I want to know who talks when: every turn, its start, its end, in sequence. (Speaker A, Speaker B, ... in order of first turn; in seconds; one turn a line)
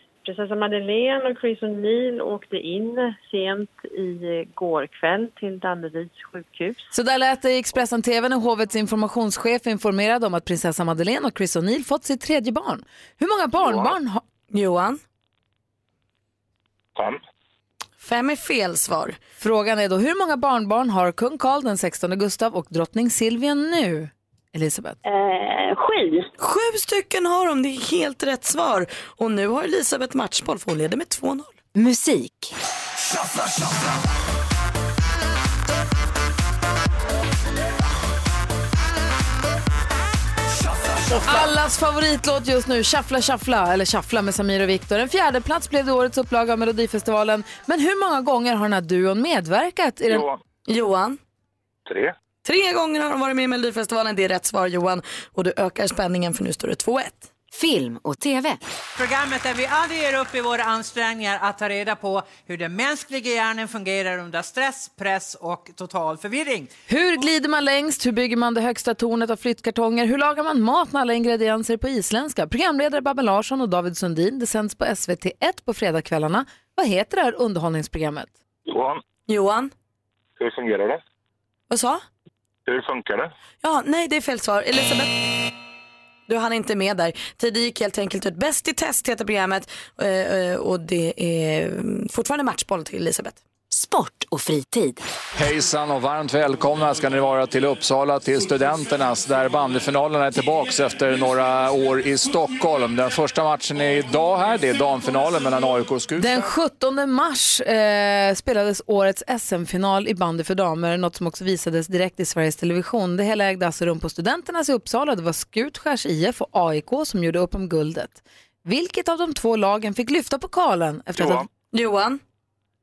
Speaker A: 0.2-6.9
Speaker B: 6.9-14.2
Speaker C: 14.5-15.0
Speaker C: 18.0-19.2
Speaker B: 19.4-25.0
Speaker C: 26.4-31.5
Speaker D: 31.7-32.5
Speaker B: 41.2-50.2
Speaker E: 50.1-50.4
Speaker C: 50.7-51.2
Speaker E: 51.9-52.1
Speaker C: 52.4-57.3
Speaker D: 57.5-58.6
Speaker F: 59.0-66.7
Speaker B: 66.9-78.3
Speaker E: 78.7-79.0
Speaker C: 79.3-79.7
Speaker E: 80.4-81.0
Speaker C: 81.7-82.0
Speaker E: 82.7-83.3
Speaker C: 83.6-85.2
Speaker C: 86.3-93.4
Speaker D: 93.7-95.0
Speaker G: 95.3-106.4
Speaker B: 106.2-121.5
Speaker C: 121.7-122.2